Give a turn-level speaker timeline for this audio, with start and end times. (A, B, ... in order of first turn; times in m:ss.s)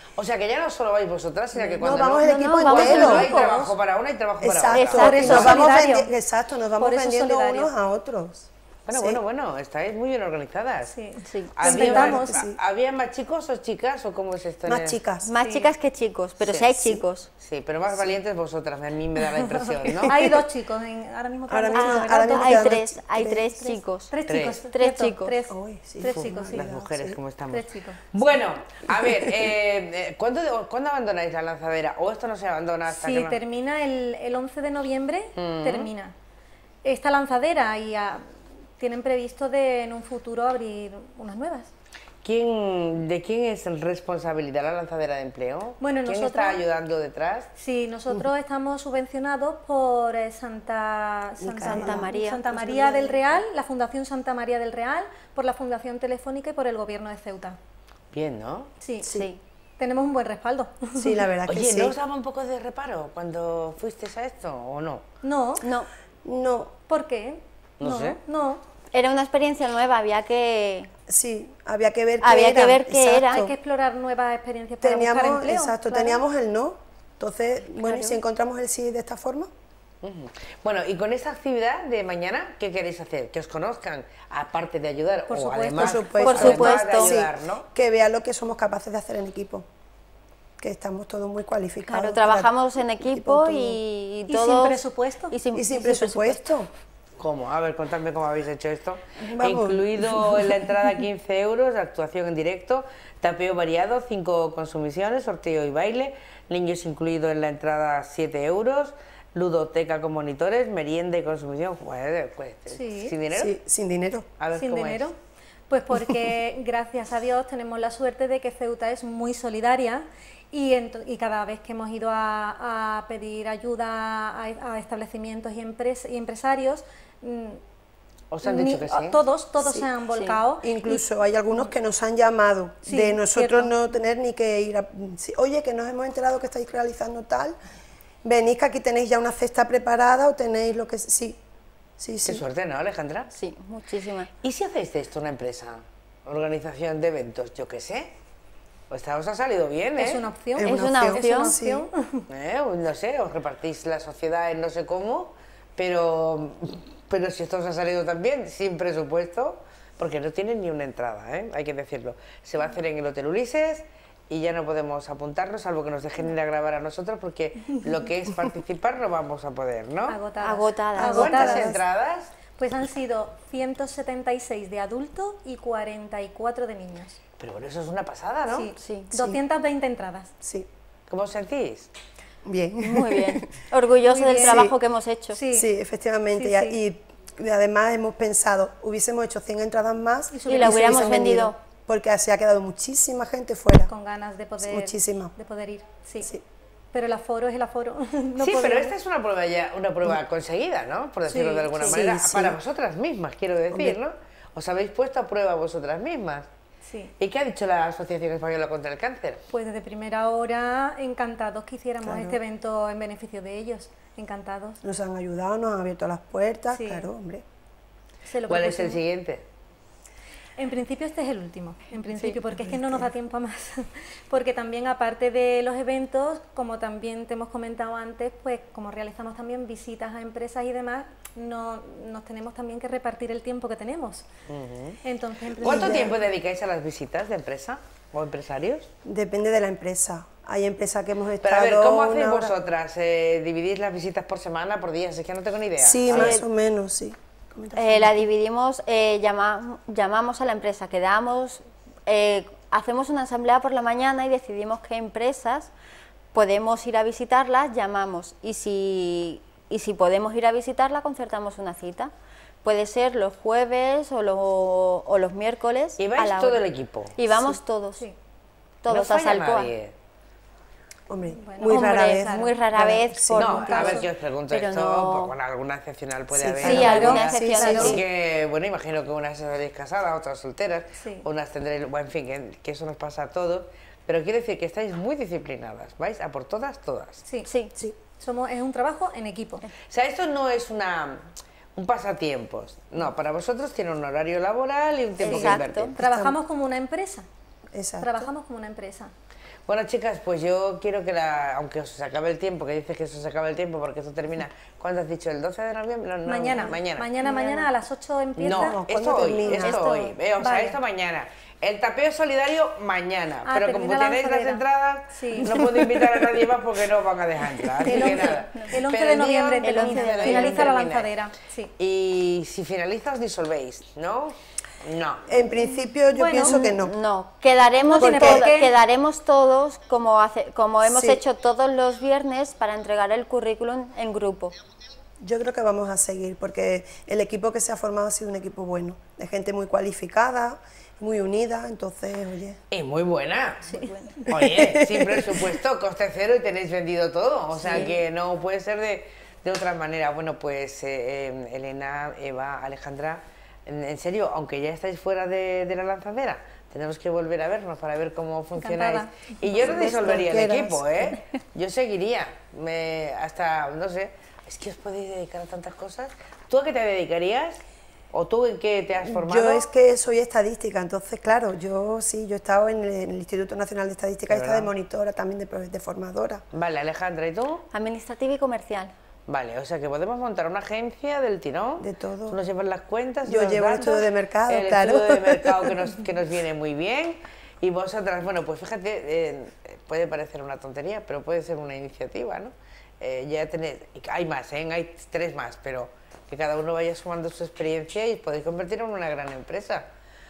0:00.2-0:05.6 A
0:01.6-0:03.5 B
0:02.2-0:03.4 C
0:03.2-0:03.6 D
0:04.4-0:09.2 B
0:04.7-0:06.0 C
0:04.9-0:06.1 D
0:06.8-0:07.7 D
0:08.9-0:10.9 A
0:10.8-0:12.4 D
0:11.3-0:11.6 C
0:11.6-0:15.0 A
0:11.6-0:12.6 B
0:14.7-0:15.3 B
0:15.2-0:17.3 C
0:16.4-0:16.7 A
0:17.4-0:20.1 A
0:19.4-0:22.8 D
0:21.5-0:23.5 B
0:21.7-0:24.1 C
0:23.5-0:28.4 D
0:24.3-0:24.6 A
0:24.7-0:25.3 C
0:25.5-0:27.2 B
0:26.1-0:33.4 A
0:32.9-0:36.1 D
0:35.3-0:35.9 A
0:36.8-0:38.2 D
0:38.8-0:41.7 D
0:42.2-0:47.5 A
0:45.8-0:46.6 D
0:47.6-0:57.6 D
0:51.4-0:53.4 B
0:51.6-0:52.4 C
0:58.1-0:58.7 A
0:58.8-0:59.1 D
0:59.1-0:59.4 C
0:59.8-1:01.2 D
1:01.0-1:02.0 B
1:01.5-1:05.0 A
1:05.2-1:05.6 D
1:05.6-1:05.9 C
1:06.2-1:06.8 B
1:06.9-1:08.6 D
1:07.8-1:08.2 A
1:08.9-1:10.9 C
1:11.1-1:13.5 B
1:12.2-1:13.4 C
1:13.3-1:16.2 D
1:14.8-1:19.5 B
1:17.8-1:18.2 D
1:20.0-1:27.6 A
1:25.3-1:26.5 D
1:25.8-1:29.6 B
1:26.2-1:27.2 C
1:30.6-1:33.8 B
1:31.9-1:36.4 C
1:34.3-1:35.4 D
1:35.5-1:36.7 B
1:37.2-1:53.5 A
1:39.2-1:40.4 B
1:52.7-1:53.2 D
1:53.3-1:54.2 B
1:54.4-1:55.1 A
1:54.5-1:55.2 D
1:55.7-2:07.6 D
2:08.3-2:09.2 A
2:08.4-2:11.7 D
2:09.6-2:09.9 B
2:10.6-2:17.6 B
2:12.8-2:13.8 D
2:18.2-2:21.4 B
2:22.0-2:22.4 B
2:22.2-2:23.3 A
2:23.3-2:24.3 C
2:24.4-2:28.1 A
2:28.9-2:30.2 A
2:30.0-2:32.2 D
2:30.6-2:31.8 B
2:30.6-2:31.5 C
2:32.3-2:50.2 A
2:50.1-2:51.8 D
2:50.4-2:51.3 C
2:51.0-2:52.3 A
2:51.4-2:51.7 B
2:52.6-2:57.2 D
2:57.4-2:58.7 A
2:58.5-3:00.3 D
2:58.8-2:59.2 C
3:00.4-3:00.7 B
3:01.1-3:01.9 A
3:02.4-3:03.4 B
3:02.8-3:05.4 C
3:04.0-3:04.7 D
3:04.4-3:04.7 B
3:05.3-3:05.7 D
3:05.5-3:13.9 B
3:06.3-3:06.8 D
3:10.3-3:11.2 D
3:10.5-3:11.6 C
3:13.9-3:16.3 D
3:14.6-3:15.3 B
3:16.9-3:18.9 D
3:18.4-3:26.5 A
3:21.3-3:22.2 D
3:21.8-3:22.5 B
3:23.7-3:24.0 B
3:26.8-3:27.1 D
3:27.2-3:29.4 A
3:29.5-3:34.8 D
3:32.0-3:32.4 B
3:34.8-3:37.4 B
3:36.7-3:37.1 D
3:38.2-3:39.0 D
3:38.5-3:39.4 A
3:40.6-3:54.3 D
3:42.6-3:42.8 B
3:54.5-3:55.0 A
3:55.0-3:56.1 D
3:55.6-3:58.9 A
3:55.7-3:56.1 B
3:59.0-4:02.5 B
4:01.4-4:06.4 A
4:05.8-4:08.2 B
4:06.1-4:06.4 C
4:07.8-4:15.7 C
4:16.3-4:22.1 C
4:22.6-4:26.6 C
4:26.0-4:27.4 A
4:27.2-4:28.0 C
4:28.8-4:29.7 C
4:28.9-4:29.9 A
4:31.1-4:34.0 B
4:31.2-4:32.6 D
4:31.7-4:35.3 C
4:33.4-4:47.2 A
4:33.6-4:34.0 D
4:36.4-4:38.0 B
4:36.6-4:38.0 C
4:36.7-4:38.0 D
4:41.0-4:41.2 D
4:47.2-4:47.5 D
4:47.5-4:47.7 C
4:48.1-4:49.6 D
4:49.9-4:56.0 A
4:55.2-4:55.9 C
4:55.4-4:56.4 B
4:56.0-4:57.3 D
4:57.7-4:58.3 B
4:58.0-4:59.1 D
4:59.7-5:07.6 A
5:06.2-5:08.8 D
5:08.4-5:21.1 A
5:08.5-5:09.9 B
5:09.4-5:10.8 D
5:13.4-5:15.6 D
5:17.8-5:21.7 D
5:18.0-5:18.6 C
5:19.6-5:20.7 C
5:21.8-5:25.2 A
5:25.3-5:27.0 B
5:26.1-5:34.5 C
5:27.9-5:28.7 D
5:28.0-5:28.5 B
5:30.8-5:31.2 B
5:35.2-5:42.6 B
5:42.7-5:43.7 A
5:43.6-5:44.0 D
5:44.3-6:07.6 A
5:44.3-5:45.5 B
5:58.6-5:59.6 D
5:59.6-6:01.1 B
6:08.1-6:09.7 A
6:09.1-6:16.4 B
6:14.3-6:14.7 A
6:16.5-6:17.6 A
6:17.7-6:18.9 C
6:19.3-6:39.8 A
6:21.8-6:22.4 B
6:23.2-6:25.8 B